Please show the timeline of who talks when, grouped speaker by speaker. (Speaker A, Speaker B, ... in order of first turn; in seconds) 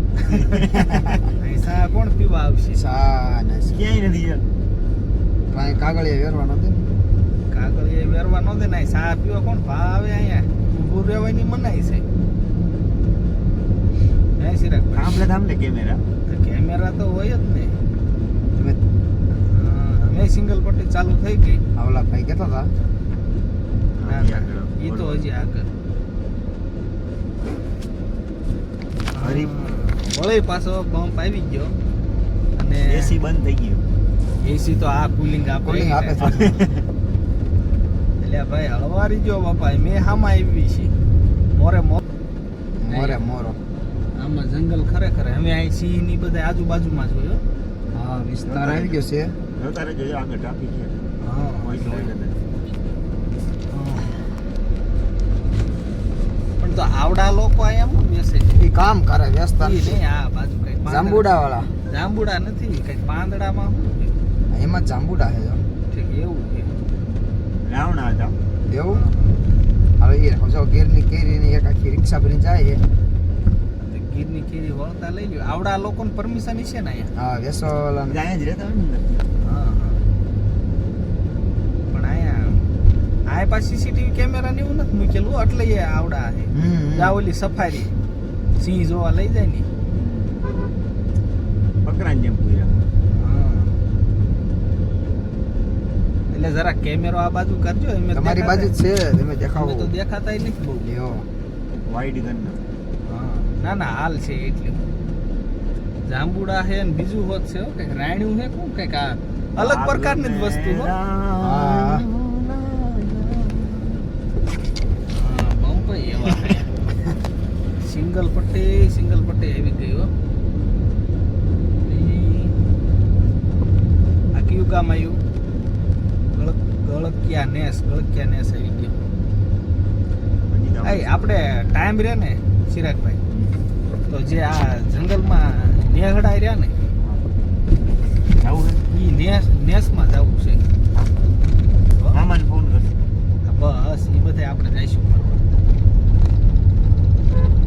Speaker A: 0.2-1.2, 3.7-4.4, 14.9-16.0, 24.0-25.2, 29.1-29.5, 32.9-33.8, 36.2-36.8, 48.5-49.0, 49.6-51.0, 51.6-52.4, 67.6-68.3, 78.1-79.2, 89.9-90.4, 91.8-92.8, 101.8-102.6, 109.6-114.0, 130.5-131.7, 133.3-133.6, 138.4-138.8, 142.1-142.9
Speaker B: 0.2-0.6, 1.4-2.8, 7.5-12.1, 14.4-15.2, 16.3-17.8, 19.4-21.6, 24.1-25.7, 29.2-31.8, 32.6-33.1, 34.4-36.3, 38.2-40.9, 41.5-42.0, 42.9-43.2, 44.1-47.4, 51.2-52.1, 53.7-54.2, 56.6-58.6, 59.6-61.3, 61.9-64.2, 65.9-66.8, 68.9-69.4, 73.8-77.1, 79.4-80.0, 81.9-82.7, 83.3-87.9, 88.6-89.7, 93.1-93.8, 96.3-98.7, 99.6-100.9, 103.1-104.8, 106.1-110.9, 115.1-116.7, 117.8-120.1, 121.8-122.6, 124.3-125.2, 126.3-128.9, 130.8-133.2, 134.1-136.7, 138.9-140.6, 143.4-145.5
Speaker C: 2.7-3.8, 5.5-6.8, 18.5-18.8, 21.8-22.7, 35.6-36.6, 42.8-43.6, 47.9-49.4, 58.6-60.0, 60.9-61.7, 64.5-65.6, 68.7-69.0, 70.0-72.8, 77.2-78.2, 86.5-87.2, 98.1-99.9, 100.8-101.2, 111.4-112.1